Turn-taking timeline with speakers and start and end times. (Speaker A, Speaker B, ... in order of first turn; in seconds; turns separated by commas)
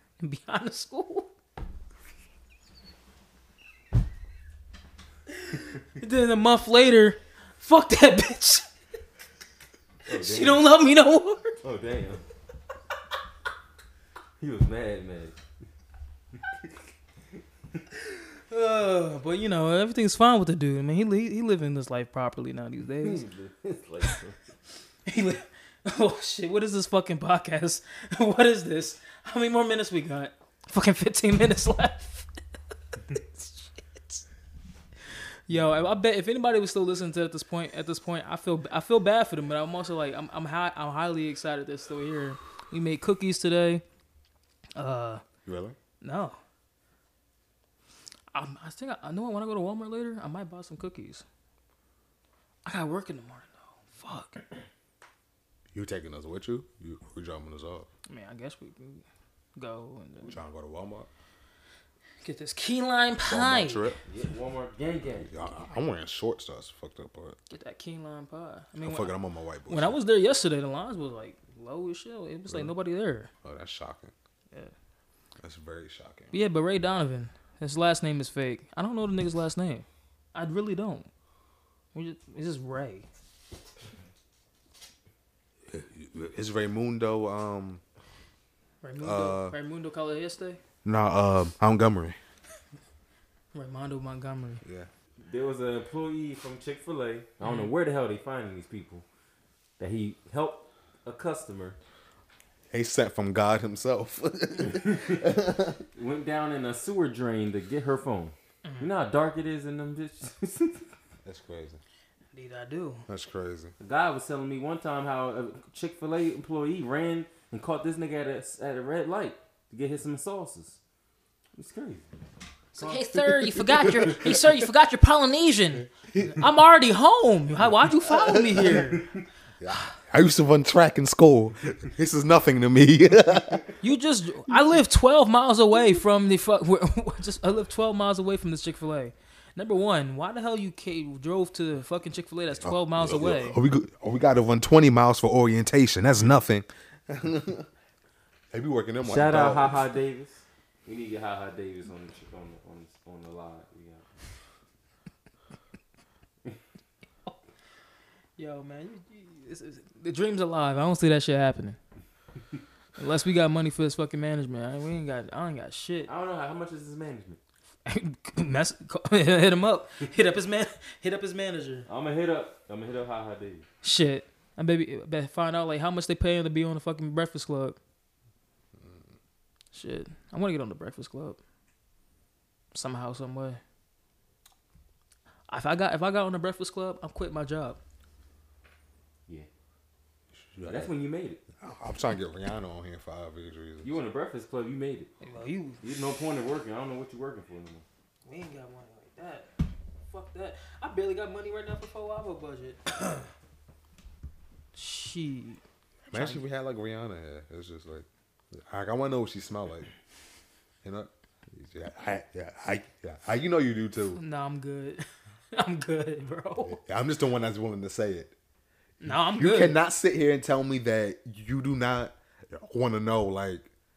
Speaker A: 0.2-1.3, Speaker A: 5.8-8.7, Speaker B: 10.1-10.7, Speaker A: 10.1-11.6, Speaker B: 11.6-12.2, Speaker B: 14.4-15.4, Speaker B: 16.3-16.7, Speaker A: 18.5-23.2, Speaker B: 23.0-24.4, Speaker A: 25.1-32.3, Speaker A: 33.1-34.2, Speaker A: 35.5-43.8, Speaker A: 44.8-45.2, Speaker C: 45.4-45.8, Speaker A: 46.0-46.4, Speaker A: 48.3-51.2, Speaker A: 52.6-54.4, Speaker C: 55.7-57.9, Speaker A: 58.1-59.0, Speaker A: 59.6-60.4, Speaker C: 60.2-61.1, Speaker A: 62.2-63.9, Speaker C: 63.2-64.0, Speaker B: 64.0-65.3, Speaker C: 65.2-67.4, Speaker A: 67.5-69.1, Speaker C: 68.8-70.0, Speaker A: 69.7-73.3, Speaker C: 73.4-74.1, Speaker C: 75.4-76.3, Speaker A: 76.3-81.1, Speaker A: 81.9-83.1, Speaker C: 85.7-87.8, Speaker A: 88.8-90.6, Speaker C: 89.0-89.5, Speaker C: 90.8-92.2, Speaker A: 93.5-94.6, Speaker C: 94.6-94.9, Speaker B: 95.2-99.0, Speaker A: 97.4-97.7, Speaker B: 99.8-101.8, Speaker C: 102.7-105.8, Speaker B: 104.6-105.4, Speaker B: 105.9-110.9, Speaker A: 108.6-108.9, Speaker C: 111.2-111.8, Speaker A: 112.3-113.0, Speaker C: 113.1-113.7, Speaker B: 113.8-120.8, Speaker B: 121.5-122.2, Speaker A: 122.7-129.1, Speaker B: 122.8-124.3, Speaker C: 123.7-124.4, Speaker C: 128.1-128.6, Speaker C: 129.6-133.7, Speaker A: 133.8-143.6, Speaker C: 142.6-147.7, Speaker C: 148.5-149.9, Speaker B: 149.0-154.1, Speaker A: 158.4-161.8, Speaker A: 163.0-166.1, Speaker B: 166.0-167.4, Speaker A: 167.8-171.9, Speaker B: 171.8-173.7, Speaker A: 173.8-177.8, Speaker C: 178.8-179.1, Speaker A: 179.7-181.4, Speaker A: 182.7-183.6, Speaker A: 185.5-187.8, Speaker C: 190.4-190.9, Speaker B: 190.7-191.4, Speaker C: 191.6-193.9, Speaker B: 193.8-195.1, Speaker A: 195.2-195.8, Speaker B: 195.8-197.8, Speaker A: 198.2-199.5, Speaker A: 200.1-203.3, Speaker A: 204.7-205.6, Speaker C: 206.1-209.9, Speaker A: 206.1-206.4, Speaker C: 210.8-214.2, Speaker A: 214.1-216.8, Speaker C: 216.7-218.3, Speaker A: 219.0-219.8, Speaker C: 219.1-223.7